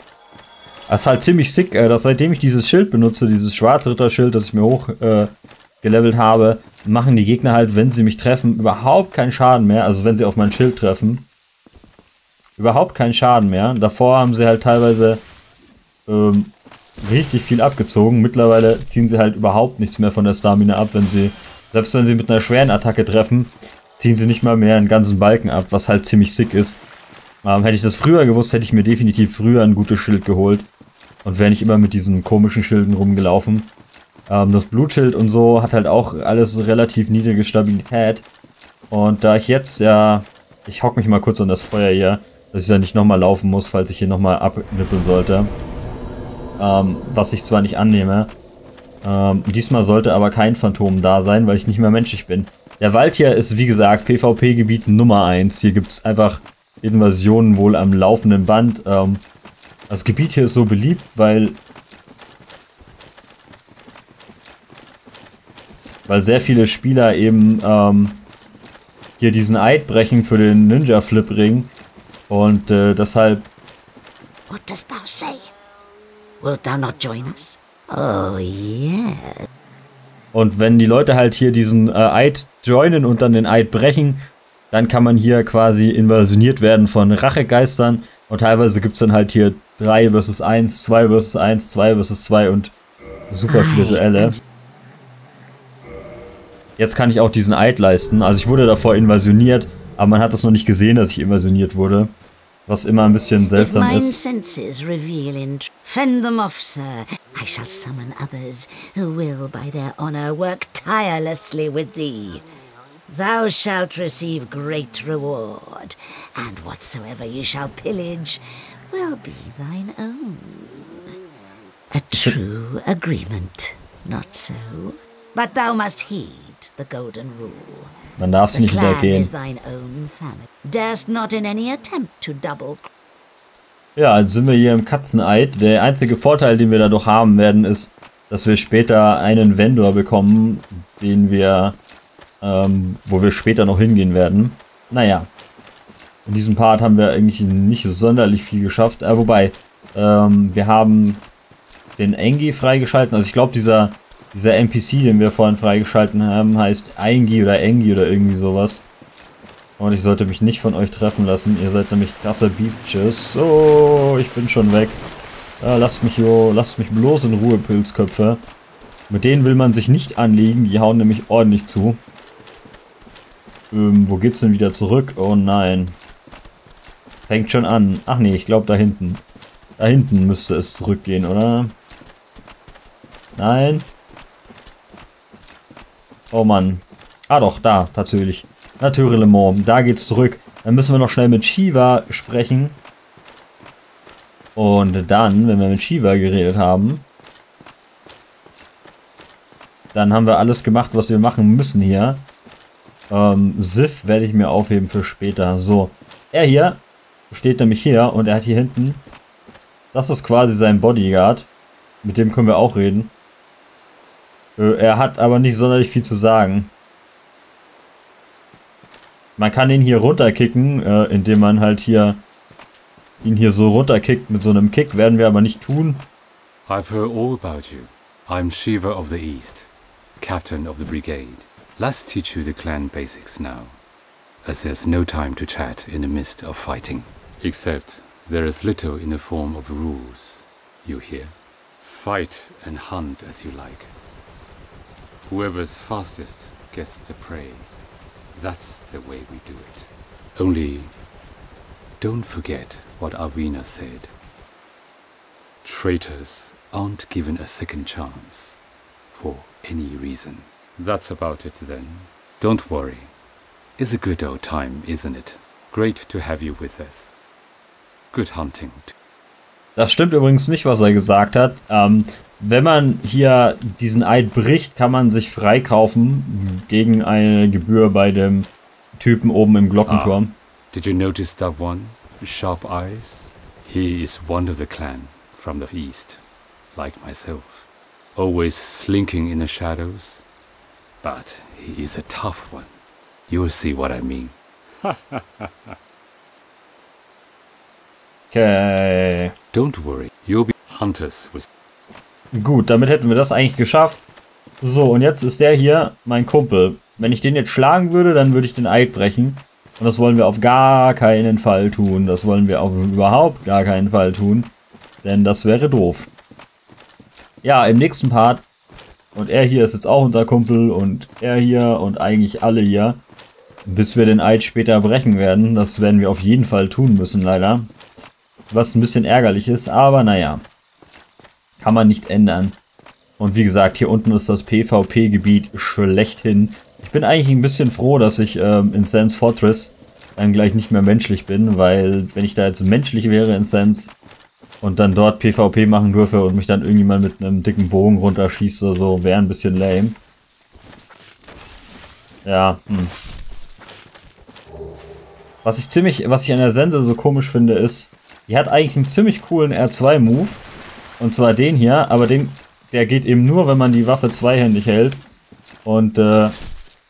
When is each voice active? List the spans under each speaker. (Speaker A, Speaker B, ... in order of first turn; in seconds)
Speaker A: 0.9-11.3, 12.6-15.2, 16.1-26.8, 27.4-30.7, 31.2-33.7, 34.3-38.2, 38.9-45.5, 46.6-48.3, 49.0-59.2, 59.9-61.6, 66.1-68.2, 69.2-71.7, 72.3-73.5, 80.3-92.7, 93.3-94.4, 96.8-102.1, 102.7-104.2, 122.1-122.4, 128.2-129.3, 133.9-141.8, 142.4-145.3, 146.2-151.2, 152.0-158.9, 159.8-165.0, 165.6-168.4, 169.1-172.0, 173.7-176.0, 177.3-179.2, 179.8-181.7, 183.3-183.9, 186.3-192.8, 194.6-197.0, 199.9-202.2, 203.1-209.0, 209.9-211.5, 212.0-213.1, 214.6-216.7, 219.4-222.2, 223.2-226.1, 269.8-280.3, 298.3-299.3, 302.3-304.0, 304.6-314.5, 315.0-316.1, 317.4-318.4, 319.1-323.0, 323.6-327.7, 328.5-330.4, 331.6-332.6, 333.2-343.9, 344.6-350.0, 352.2-352.9, 355.4-360.4, 361.0-365.0, 365.6-366.4
Speaker B: 74.5-75.5, 76.4-79.4, 93.5-94.4, 103.5-112.4, 113.1-121.2, 121.9-127.9, 128.5-132.9
Speaker C: 226.7-233.8, 234.4-243.9, 245.2-247.7, 248.3-250.9, 252.0-254.1, 255.6-258.6, 259.1-263.1, 263.8-267.1, 268.1-268.9, 279.9-280.2, 280.7-286.2, 286.7-290.2, 291.0-292.8, 293.3-295.5, 299.5-301.4